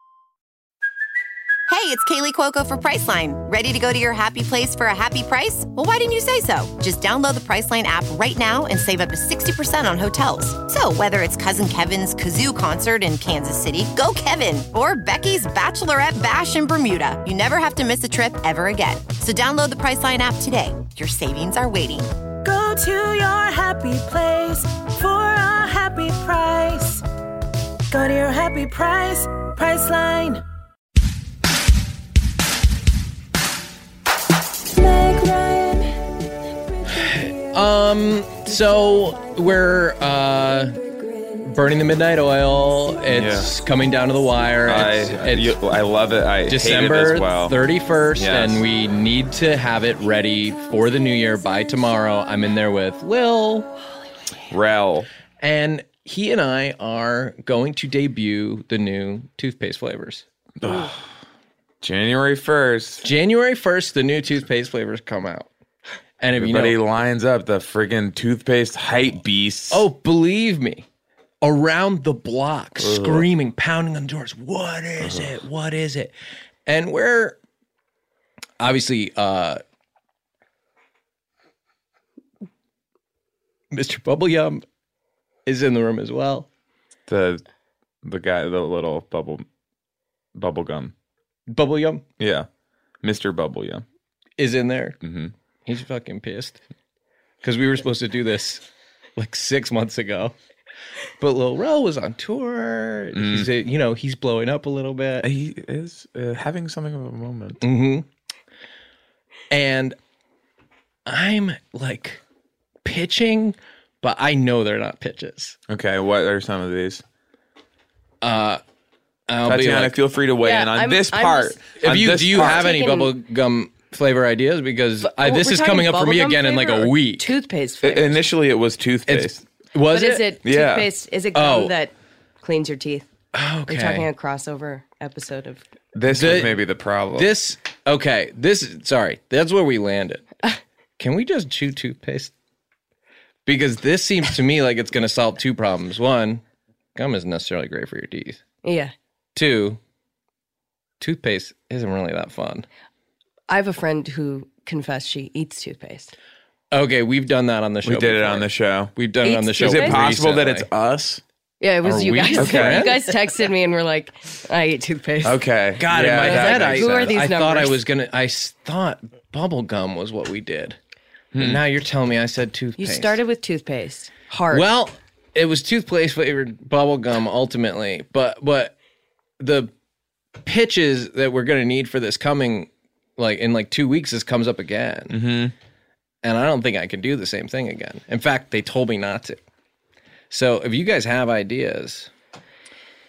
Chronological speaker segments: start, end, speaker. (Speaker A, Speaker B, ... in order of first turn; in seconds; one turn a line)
Speaker A: 1.7-22.2
Speaker B: 22.5-24.9
Speaker B: 25.9-26.6
Speaker B: 28.4-30.4
Speaker C: 37.0-40.7
Speaker C: 41.4-45.5
Speaker D: 43.1-43.5
Speaker D: 44.6-47.6
Speaker C: 46.5-53.7
Speaker D: 48.1-48.6
Speaker D: 54.5-55.1
Speaker C: 55.4-60.9
Speaker D: 60.6-61.0
Speaker D: 61.8-63.0
Speaker C: 63.0-65.5
Speaker C: 66.2-66.8
Speaker D: 66.4-69.8
Speaker C: 69.7-70.8
Speaker C: 71.4-76.1
Speaker D: 72.8-73.3
Speaker D: 75.0-75.4
Speaker C: 76.7-77.4
Speaker C: 78.6-79.6
Speaker C: 83.7-84.6
Speaker C: 85.5-86.5
Speaker D: 87.1-87.4
Speaker D: 88.0-89.4
Speaker D: 90.3-90.9
Speaker C: 91.5-92.0
Speaker D: 92.2-92.5
Speaker D: 93.0-93.8
Speaker C: 94.4-95.0
Speaker D: 95.0-95.3
Speaker C: 95.7-96.6
Speaker C: 97.4-98.6
Speaker C: 99.2-100.3
Speaker C: 101.2-105.3
Speaker D: 103.1-103.5
Speaker D: 105.2-107.6
Speaker C: 107.6-108.0
Speaker C: 109.5-110.0
Speaker C: 111.0-112.2
Speaker C: 112.8-115.5
Speaker D: 115.7-117.0
Speaker C: 118.2-118.6
Speaker C: 119.3-120.0
Speaker D: 119.4-122.7
Speaker E: 120.4-121.6
Speaker C: 121.8-127.3
Speaker E: 122.3-123.1
Speaker E: 125.0-128.2
Speaker D: 127.8-129.4
Speaker C: 129.1-130.3
Speaker E: 129.9-133.1
Speaker D: 130.4-130.9
Speaker C: 131.3-131.7
Speaker C: 133.3-134.1
Speaker E: 133.7-135.6
Speaker D: 135.9-137.3
Speaker C: 136.1-136.6
Speaker C: 137.2-140.3
Speaker C: 141.0-142.3
Speaker C: 143.4-146.4
Speaker C: 146.9-148.4
Speaker E: 148.6-148.9
Speaker C: 149.3-149.8
Speaker C: 151.0-152.7
Speaker E: 153.5-156.1
Speaker C: 156.7-160.7
Speaker D: 157.8-158.9
Speaker E: 159.2-160.0
Speaker D: 159.6-161.2
Speaker E: 161.6-165.4
Speaker C: 161.8-163.2
Speaker D: 162.4-162.9
Speaker D: 165.2-167.1
Speaker C: 165.8-170.8
Speaker E: 166.2-167.8
Speaker D: 171.3-171.6
Speaker C: 171.3-173.2
Speaker E: 172.8-174.7
Speaker C: 174.5-178.7
Speaker C: 179.4-179.7
Speaker C: 180.4-185.2
Speaker D: 185.1-185.5
Speaker C: 186.2-189.4
Speaker C: 190.3-192.1